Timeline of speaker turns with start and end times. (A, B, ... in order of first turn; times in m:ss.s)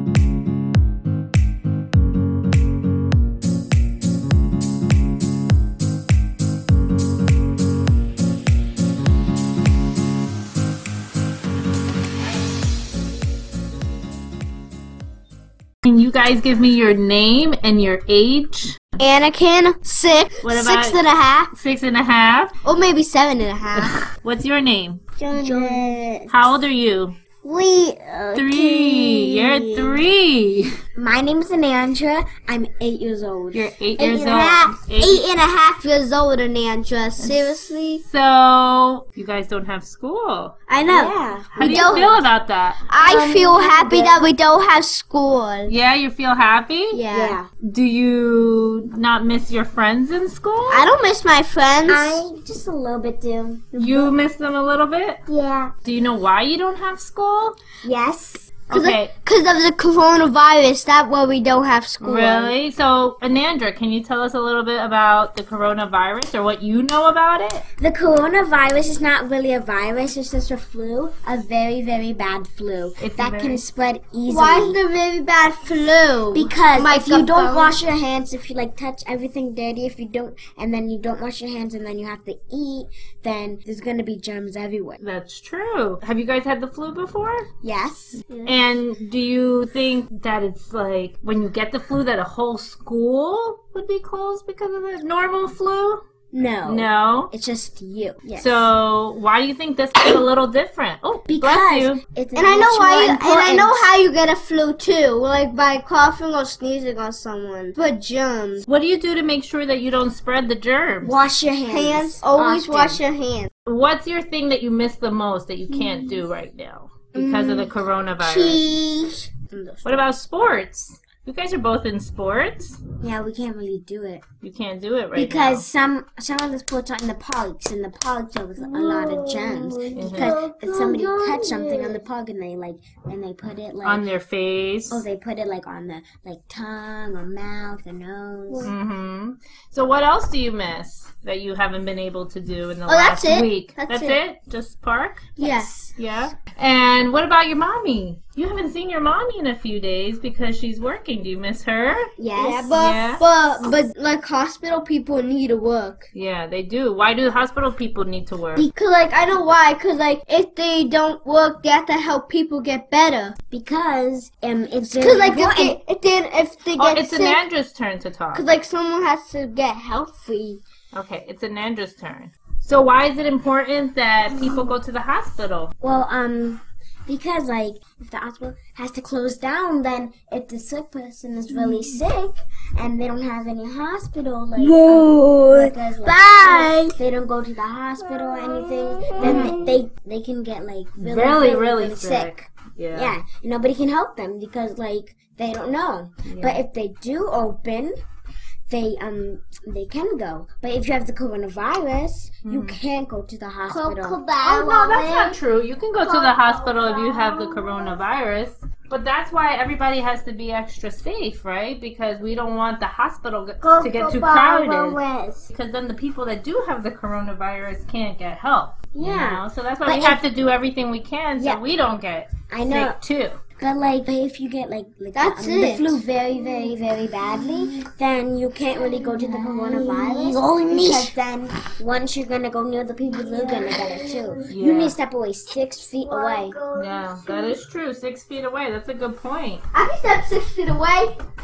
0:15.8-0:19.0 A
0:19.0-0:21.5 B
0:20.4-0:21.0 A
0:21.5-0:22.5 A
0:22.6-0:24.0 B
0:23.7-0:25.0 A
0:25.2-0:26.0 B
0:25.3-0:26.3 C
0:26.3-0:27.2 A
0:27.4-0:30.0 B
0:28.3-0:30.7 A
0:30.9-0:34.6 C
0:33.5-0:35.2 A
0:34.0-0:38.0 B
0:38.0-0:40.5 A
0:40.7-0:42.2 B
0:40.9-0:42.0 C
0:41.6-0:42.8 A
0:42.8-0:45.7 B
0:43.0-0:44.2 C
0:45.6-0:47.0 A
0:46.9-0:47.4 B
0:47.1-0:47.5 C
0:47.6-0:50.9 A
0:50.7-0:52.2 B
0:51.9-0:54.0 C
0:53.8-0:55.2 A
0:55.3-0:55.7 C
0:55.8-0:57.6 A
0:57.8-0:58.5 C
0:58.7-0:59.1 A
0:58.7-1:02.5 B
1:02.0-1:07.6 A
1:07.8-1:14.8 C
1:13.0-1:13.6 A
1:14.3-1:17.8 B
1:16.3-1:25.0 C
1:25.0-1:27.5 A
1:27.6-1:28.6 C
1:28.4-1:36.0 A
1:36.3-1:38.7 C
1:36.6-1:37.3 A
1:38.4-1:42.0 A
1:41.3-1:43.8 C
1:42.3-1:48.6 B
1:48.6-1:51.2 A
1:51.0-1:53.0 C
1:51.7-1:53.5 B
1:53.6-1:58.6 A
1:57.1-1:59.3 B
1:59.5-2:00.1 C
1:59.8-2:02.8 A
2:03.0-2:04.2 C
2:04.4-2:05.6 A
2:05.1-2:14.0 C
2:08.6-2:12.0 B
2:09.9-2:10.4 A
2:13.8-2:15.0 A
2:14.9-2:18.7 C
2:18.6-2:32.1 A
2:22.9-2:24.2 B
2:25.4-2:25.9 B
2:32.2-2:32.8 C
2:32.4-2:36.1 B
2:32.7-2:33.2 A
2:36.1-2:38.7 A
2:38.6-2:43.4 B
2:43.5-2:45.8 C
2:45.0-2:47.4 B
2:46.8-2:48.4 A
2:48.3-2:50.6 B
2:50.9-2:55.7 A
2:55.8-3:17.9 C
3:01.5-3:01.9 B
3:04.6-3:07.0 B
3:08.9-3:09.7 B
3:09.2-3:09.6 A
3:11.0-3:13.2 A
3:16.3-3:16.6 A
3:18.7-3:24.2 C
3:22.4-3:22.8 A
3:23.7-3:25.4 B
3:24.4-3:43.4 A
3:26.0-3:28.0 B
3:33.6-3:35.5 B
3:38.9-3:40.2 C
3:42.5-3:43.0 C
3:43.6-3:56.6 C
3:45.1-3:46.0 B
3:47.4-3:47.9 B
3:48.8-3:51.2 B
3:53.2-3:54.5 B
3:54.5-3:55.0 A
3:56.0-3:57.6 B
3:56.7-3:59.6 A
3:59.7-4:01.2 B